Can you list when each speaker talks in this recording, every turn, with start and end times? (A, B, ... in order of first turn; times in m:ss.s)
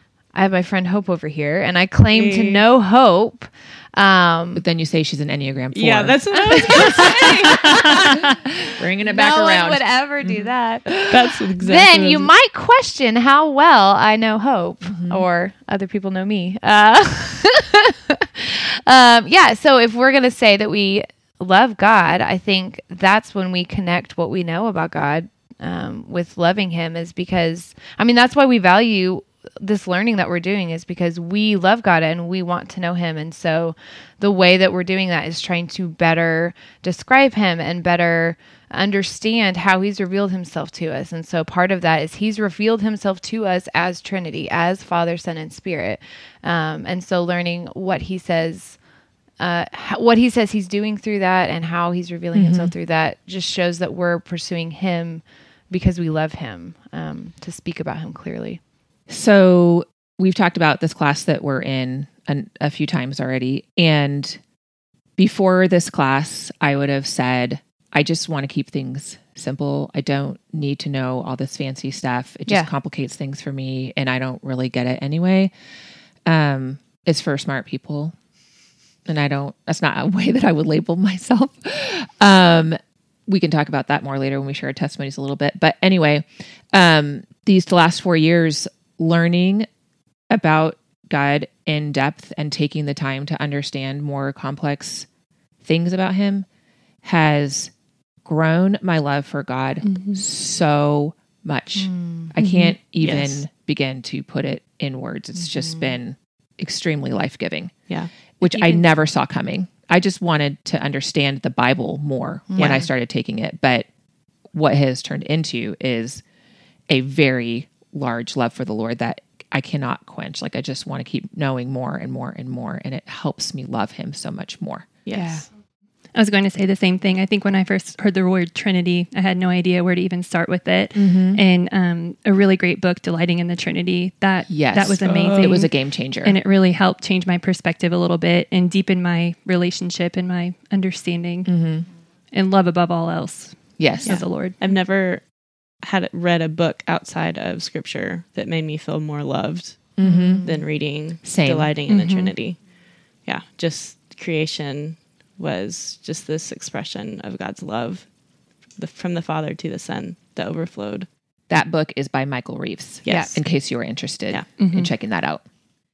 0:00.3-0:04.6 A
0:02.1-0:02.6 B
0:04.6-0:08.2 C
0:05.7-0:07.6 B
0:06.4-0:08.0 A
0:08.8-0:11.2 C
0:09.0-0:48.8 A
0:11.1-0:12.3 B
0:14.8-0:15.2 C
0:49.4-0:58.6 A
0:52.3-0:52.7 C
0:59.1-1:04.4 C
1:05.2-1:15.5 C
1:16.2-1:18.1 C
1:19.0-1:29.6 C
1:30.3-1:35.1 C
1:35.6-1:36.4 C
1:37.0-1:37.7 C
1:38.2-1:47.7 C
1:39.8-1:40.2 D
1:41.9-1:42.3 A
1:42.4-1:42.8 D
1:43.0-1:43.4 B
1:48.4-1:53.9 C
1:52.5-1:52.8 A
1:52.6-1:52.8 B
1:54.5-1:56.2 C
1:56.9-2:05.0 C
2:05.0-2:05.4 B
2:05.1-2:05.4 A
2:06.1-2:21.5 D
2:10.9-2:11.4 C
2:14.5-2:16.4 C
2:15.0-2:15.5 B
2:21.4-2:21.9 C
2:22.3-2:24.6 D
2:23.8-2:24.2 C
2:24.0-2:25.2 B
2:25.8-2:32.6 B
2:30.0-2:30.5 C
2:30.0-2:30.6 A
2:31.2-2:31.7 C
2:31.9-2:32.3 D
2:33.2-2:38.0 B
2:38.8-2:41.1 B
2:41.5-2:45.4 C
2:43.0-2:43.4 B
2:43.1-2:43.4 A
2:44.6-2:44.9 D